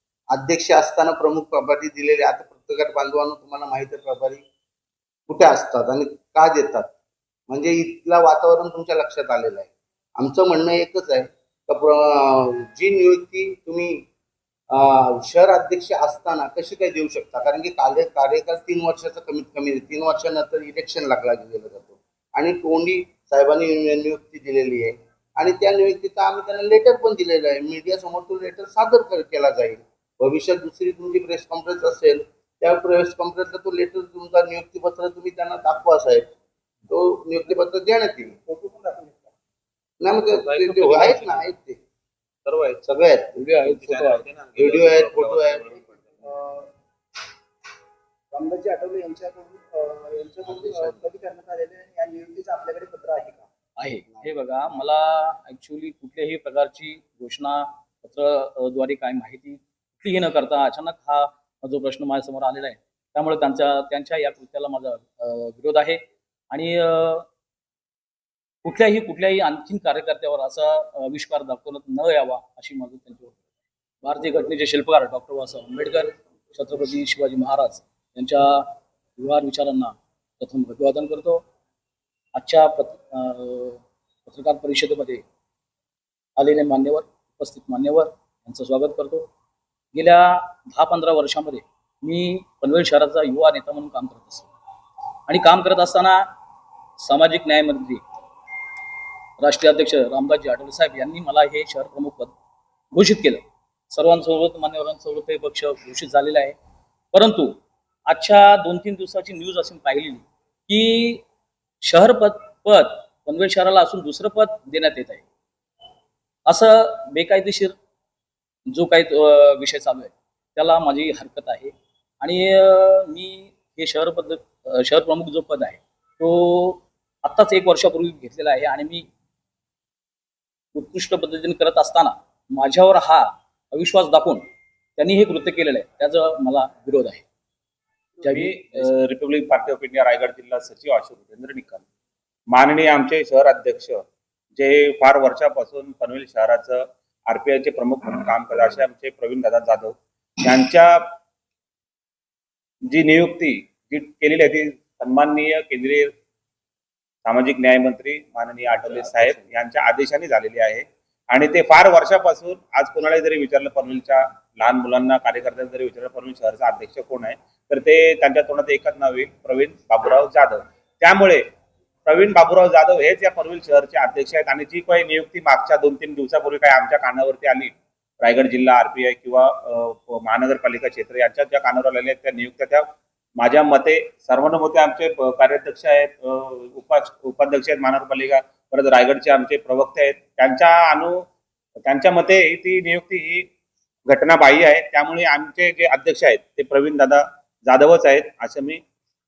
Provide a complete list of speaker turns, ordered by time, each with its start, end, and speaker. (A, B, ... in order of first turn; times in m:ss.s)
0:00.3-0:04.4 A
0:05.3-0:06.9 A
0:07.5-0:14.0 A
0:14.7-0:36.3 A
0:36.9-0:38.4 A
0:38.5-0:39.3 B
0:40.0-0:41.8 A
0:40.3-0:41.5 C
0:42.5-0:42.8 C
0:42.8-0:43.4 A
0:43.4-0:44.2 D
0:43.6-0:46.2 C
0:44.6-0:45.7 A
0:46.2-0:46.7 B
0:48.3-0:53.4 B
0:50.4-0:51.1 A
0:53.8-1:07.3 D
0:54.1-0:54.8 A
1:08.6-1:13.4 D
1:14.0-1:21.4 D
1:22.3-1:25.2 D
1:26.4-1:29.3 D
1:29.9-1:34.5 D
1:35.3-1:36.3 D
1:37.0-1:38.0 D
1:39.4-1:42.3 D
1:42.9-1:46.6 D
1:47.1-1:51.2 D
1:51.8-1:55.2 D
1:56.5-1:57.8 D
1:58.7-2:09.1 D
2:10.8-2:17.2 D
2:18.2-2:18.9 D
2:18.2-2:21.8 C
2:22.5-2:31.2 C
2:32.9-2:36.1 C
2:37.2-2:51.4 C
2:38.8-2:39.4 A
2:52.1-3:11.3 C
3:11.9-3:13.5 C
3:14.1-3:18.8 C